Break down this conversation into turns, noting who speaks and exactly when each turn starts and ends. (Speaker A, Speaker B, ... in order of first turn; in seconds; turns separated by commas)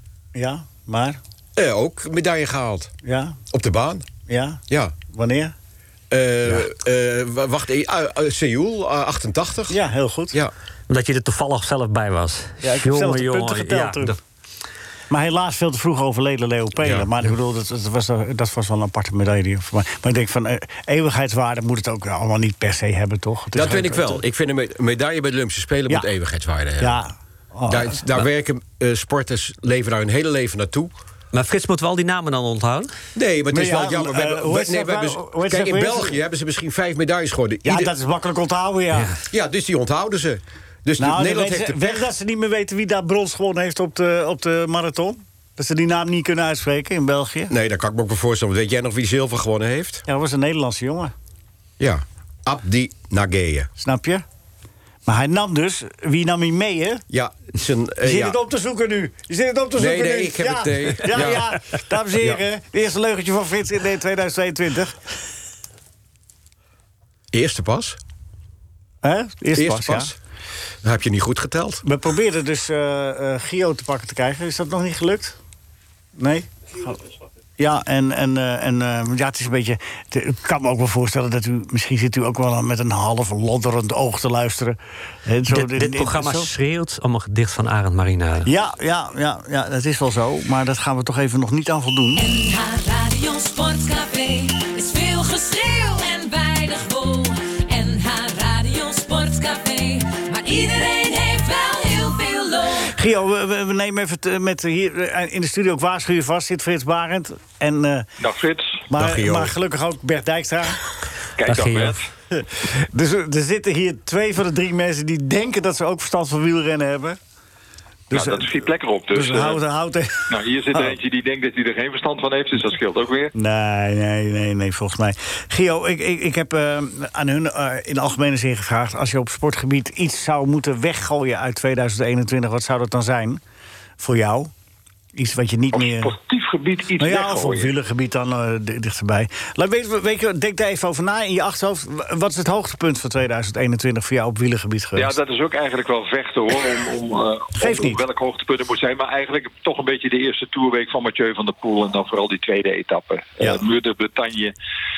Speaker A: 0.3-1.2, Speaker B: 1.6-2.9, Speaker A: 3.0-3.4, Speaker B: 3.5-4.1, Speaker A: 4.3-5.5, Speaker B: 4.7-4.9, Speaker B: 6.1-9.8, Speaker A: 9.7-10.4, Speaker C: 10.9-14.2, Speaker A: 12.6-14.2, Speaker A: 15.1-24.2, Speaker B: 16.8-17.1, Speaker B: 23.5-27.0, Speaker A: 26.8-28.0, Speaker B: 27.7-30.9, Speaker C: 31.3-32.9, Speaker B: 33.1-37.9, Speaker A: 33.5-36.2, Speaker A: 37.6-39.1, Speaker B: 39.3-42.1, Speaker A: 41.0-47.5, Speaker B: 47.5-50.0, Speaker A: 50.1-51.1, Speaker B: 51.8-53.7, Speaker A: 53.8-54.2, Speaker A: 55.0-57.0, Speaker B: 57.1-58.4, Speaker A: 58.0-65.2, Speaker B: 59.8-61.6, Speaker B: 67.3-68.0, Speaker A: 69.0-70.1, Speaker B: 69.5-70.2, Speaker B: 70.8-71.8, Speaker A: 71.8-75.4, Speaker A: 76.2-77.0, Speaker A: 77.6-86.5, Speaker C: 85.5-88.5, Speaker A: 88.5-92.2, Speaker D: 92.3-102.9, Speaker A: 102.8-108.1, Speaker E: 108.2-108.8, Speaker A: 108.9-110.8, Speaker B: 108.9-109.5, Speaker E: 111.4-112.1, Speaker C: 111.4-112.0, Speaker A: 112.3-117.2, Speaker A: 118.1-118.5, Speaker E: 118.1-119.6, Speaker A: 119.1-120.9, Speaker E: 120.3-123.3, Speaker A: 123.3-133.4, Speaker A: 134.0-134.5, Speaker A: 135.1-136.1, Speaker E: 135.7-137.7, Speaker A: 137.0-145.2, Speaker E: 144.9-154.5, Speaker A: 147.6-148.0